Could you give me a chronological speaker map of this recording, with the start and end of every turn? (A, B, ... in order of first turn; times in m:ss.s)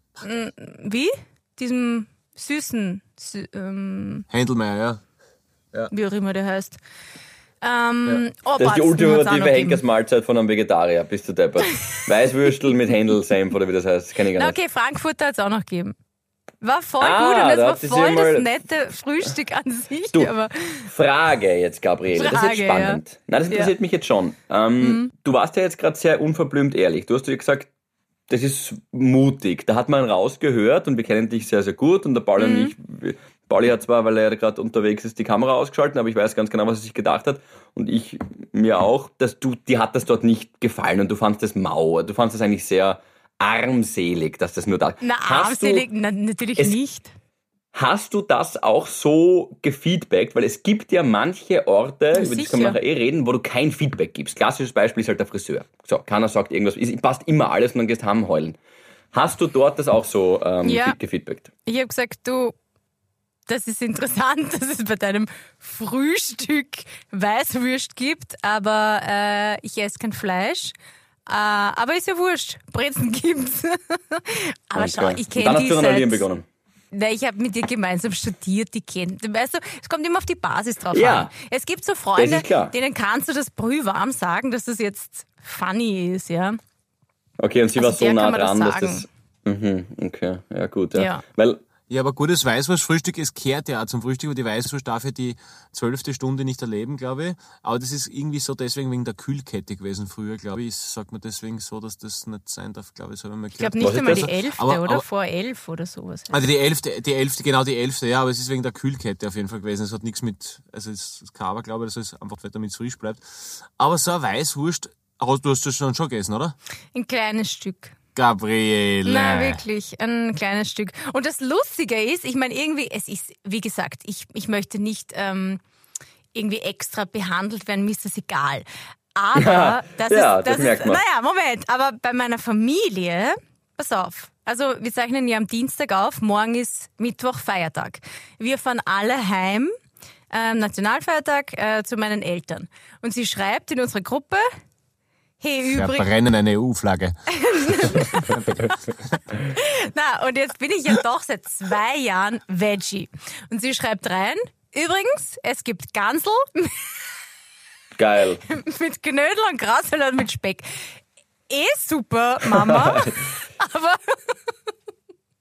0:00.2-0:04.3 A
0:04.3-0:05.0 B
0:05.9-0:06.8 A
0:07.6-0:09.8 A
0:08.6-0:14.6 C
0:14.4-0:16.0 A
0:16.6-0:20.9 A
0:17.0-0:18.5 C
0:20.1-0:27.7 C
0:22.2-0:23.7 A
0:24.8-0:25.1 A
0:28.3-0:45.9 C
0:32.4-0:32.7 A
0:45.0-0:47.1 A
0:47.8-0:58.6 C
0:52.1-0:52.8 A
0:59.1-1:01.5 C
1:00.6-1:01.0 A
1:01.7-1:02.6 A
1:03.5-1:10.7 A
1:11.3-1:16.2 A
1:14.8-1:16.4 C
1:16.9-1:26.6 A
1:20.9-1:21.3 C
1:22.2-1:22.7 C
1:27.4-1:31.6 C
1:27.8-1:29.1 A
1:31.0-1:31.2 A
1:31.9-1:45.0 B
1:43.6-1:46.4 A
1:43.8-1:44.3 C
1:46.3-1:56.6 B
1:57.0-1:58.0 A
1:58.2-1:59.6 B
1:59.0-2:05.6 A
2:06.3-2:19.7 A
2:09.4-2:11.0 C
2:20.3-2:24.4 A
2:25.4-2:26.1 A
2:25.7-2:27.2 B
2:27.4-2:36.7 A
2:27.7-2:29.1 B
2:38.0-2:38.4 C
2:38.5-2:40.9 A
2:41.5-2:44.3 A
2:42.5-2:43.2 C